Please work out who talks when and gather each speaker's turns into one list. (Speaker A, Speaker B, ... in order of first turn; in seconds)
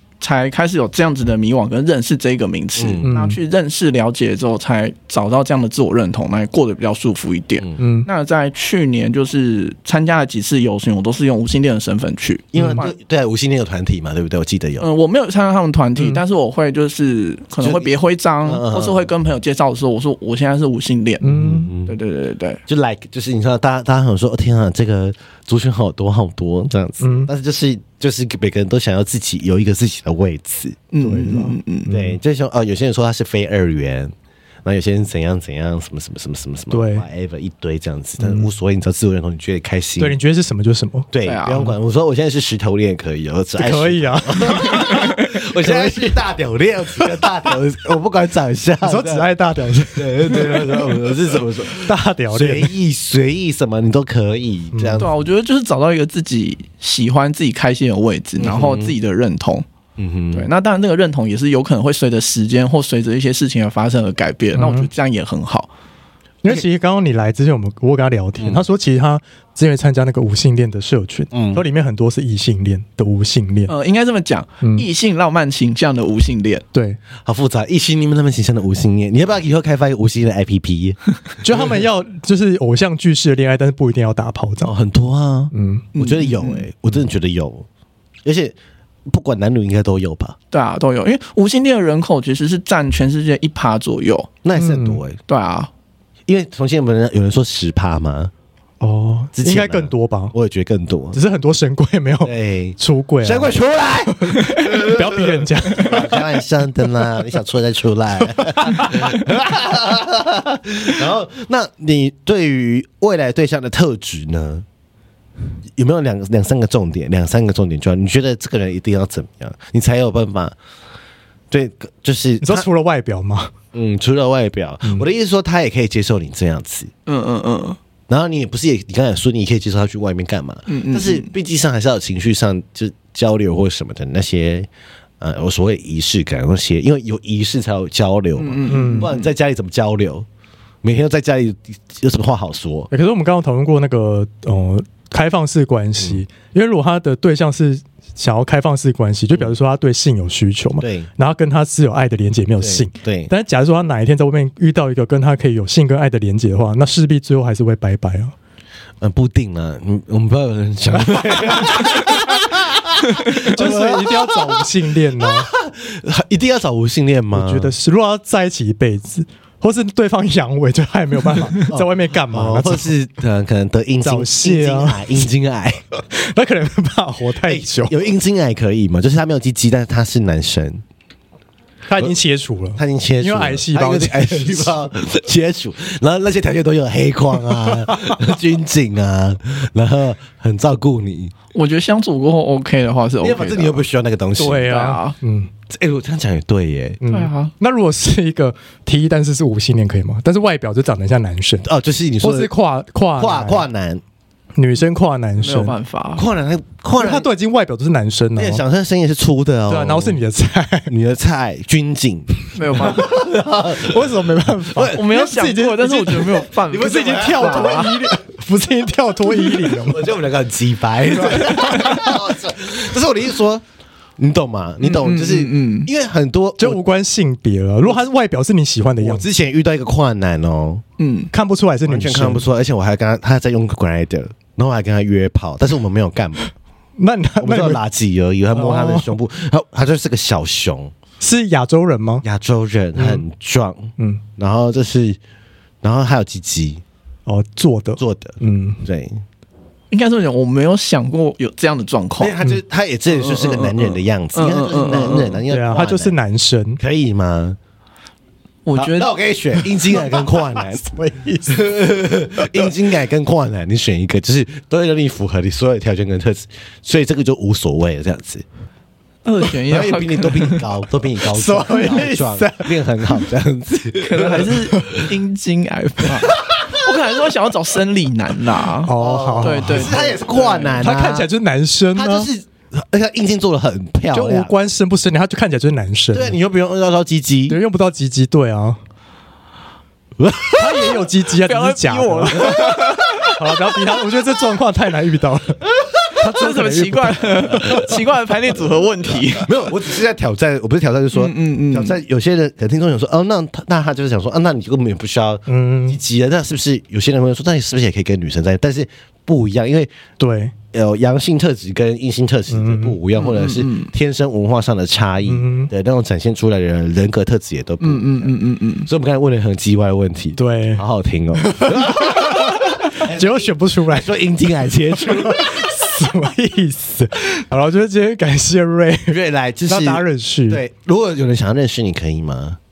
Speaker A: 0.2-12.9, 14.8-21.3, 21.9-22.6, 30.9-31.9, 41.3-41.7, 55.0-59.6, 60.3-65.7, 73.7-76.6, 86.0-86.7, 90.5-94.3, 95.3-95.7, 127.1-127.8, 130.7-131.3, 138.4-139.3, 191.5-193.8, 194.6-195.2, 197.1-197.5, 205.4-206.3, 212.6-213.1, 214.8-217.9, 224.8-225.9, 231.0-231.3, 249.9-252.3, 253.1-255.4, 258.7-259.1, 269.2-270.7, 274.0-280.9, 291.4-293.4, 296.2-299.5, 301.1-302.0, 313.1-313.9, 317.8-318.9
Speaker B: 2.8-3.1, 12.5-14.9, 17.6-19.1, 21.3-21.9, 22.7-30.8, 31.9-34.1, 34.6-40.2, 41.1-49.3, 49.9-55.1, 58.4-59.0, 60.0-60.5, 68.4-68.6, 71.3-71.6, 77.2-81.0, 84.6-87.7, 88.2-88.6, 89.1-90.4, 94.4-95.2, 96.3-98.3, 99.3-101.2, 102.2-114.7, 115.8-120.6, 121.5-122.7, 123.7-126.9, 128.1-134.7, 135.2-140.3, 140.8-142.9, 150.8-151.1, 152.6-153.3, 159.0-164.7, 165.2-167.7, 171.7-175.8, 177.5-180.8, 182.8-191.3, 193.2-194.7, 195.7-197.0, 201.6-202.5, 203.2-204.0, 206.2-207.3, 208.4-210.2, 210.9-214.1, 214.7-215.0, 216.7-217.9, 219.4-223.6, 224.2-226.8, 229.0-230.8, 231.9-236.4, 237.4-240.9, 242.2-245.2, 245.8-246.8, 248.0-249.2, 252.2-256.1, 256.8-257.6, 258.8-260.9, 261.5-268.4, 269.6-275.0, 276.2-277.0, 278.9-281.3, 281.9-284.5, 286.1-287.6, 290.2-291.1, 292.3-292.8, 299.4-309.9, 310.7-318.3, 318.9-325.8, 329.1-332.6
Speaker C: 3.0-3.4, 7.8-8.1, 12.6-12.8, 16.0-16.2, 21.2-21.7, 27.0-27.3, 31.0-32.2, 36.7-37.1, 38.2-38.5, 40.0-41.7, 43.6-45.8, 48.8-51.0, 51.8-52.7, 54.7-55.1, 64.6-64.9, 66.4-73.7, 74.6-74.9, 76.7-77.0, 81.4-84.7, 85.5-85.9, 94.6-95.0, 98.8-100.3, 101.1-103.5, 104.1-106.2, 108.4-109.0, 122.4-123.5, 138.7-139.1, 142.9-158.3, 163.3-165.5, 167.3-172.9, 174.0-175.3, 176.1-177.9, 181.9-184.8, 194.4-195.5, 197.0-201.7, 202.2-203.7, 204.6-205.8, 207.0-208.6, 209.7-210.9, 213.6-220.1, 221.2-222.2, 226.6-229.3, 231.3-232.5, 237.0-237.8, 238.5-239.1, 241.2-242.2, 243.0-243.2, 247.3-248.9, 255.5-256.8, 259.9-261.7, 262.4-262.7, 271.2-273.2, 278.8-279.9, 280.8-282.3, 284.1-286.4, 287.5-288.8, 290.6-297.9, 305.5-306.0, 310.2-310.5, 312.5-313.0, 315.3-315.7, 320.4-320.8, 321.4-324.1, 325.1-330.6